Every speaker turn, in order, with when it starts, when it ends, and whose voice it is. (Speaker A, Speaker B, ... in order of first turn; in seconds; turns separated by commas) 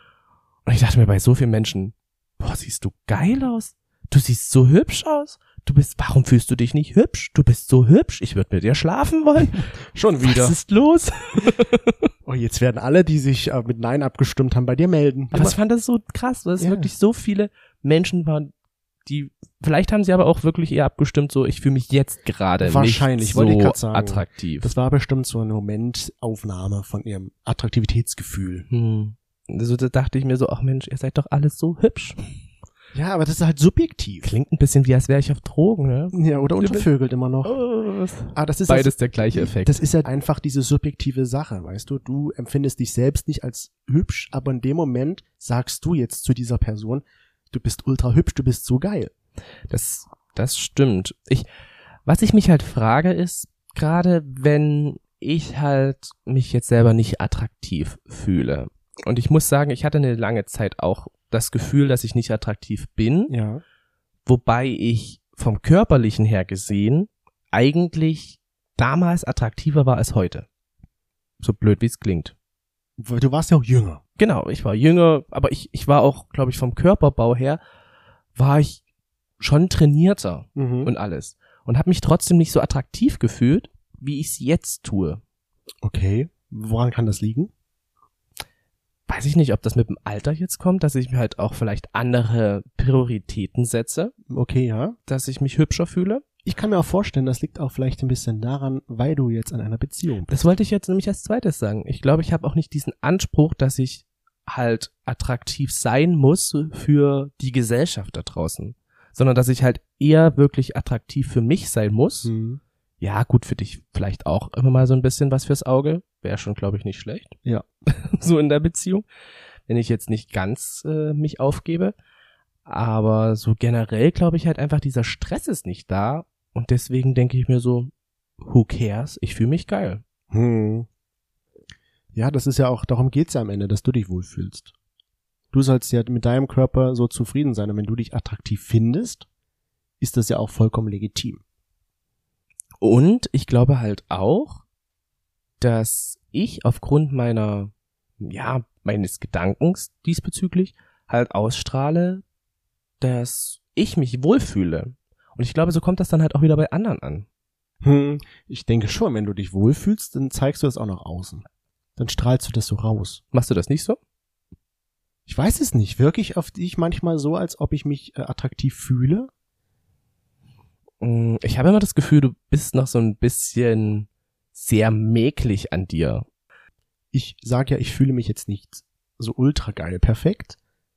Speaker A: 0.7-9.7, Speaker B: 9.8-10.6, Speaker A: 10.2-12.1, Speaker B: 12.2-15.6, Speaker A: 15.3-18.5, Speaker B: 16.6-16.9, Speaker A: 19.0-24.7, Speaker B: 22.6-28.6, Speaker A: 28.7-32.2, Speaker B: 32.9-34.3, Speaker A: 34.2-36.9, Speaker B: 36.1-37.6, Speaker A: 37.4-39.9, Speaker B: 38.3-49.1, Speaker A: 49.7-51.5, Speaker A: 52.0-63.3, Speaker B: 63.3-63.6, Speaker A: 64.2-70.5, Speaker A: 71.4-72.3, Speaker B: 73.0-74.0, Speaker A: 74.2-77.6, Speaker A: 78.3-78.8, Speaker A: 79.4-85.2, Speaker B: 80.5-80.9, Speaker B: 85.8-87.5, Speaker A: 89.1-94.1, Speaker B: 94.3-95.0, Speaker A: 95.1-96.2, Speaker B: 96.4-100.4, Speaker A: 100.3-112.3, Speaker B: 112.2-112.6, Speaker A: 113.0-117.3, Speaker A: 117.9-119.0, Speaker A: 119.7-121.9, Speaker A: 122.7-130.0, Speaker B: 130.3-130.9, Speaker B: 132.1-134.7, Speaker B: 135.5-139.2, Speaker B: 140.0-141.4, Speaker A: 142.8-144.6, Speaker A: 145.6-152.2, Speaker A: 153.0-157.2, Speaker B: 157.8-161.4, Speaker B: 162.0-163.2, Speaker A: 163.3-164.0, Speaker B: 165.3-169.3, Speaker A: 171.0-176.2, Speaker B: 177.1-180.6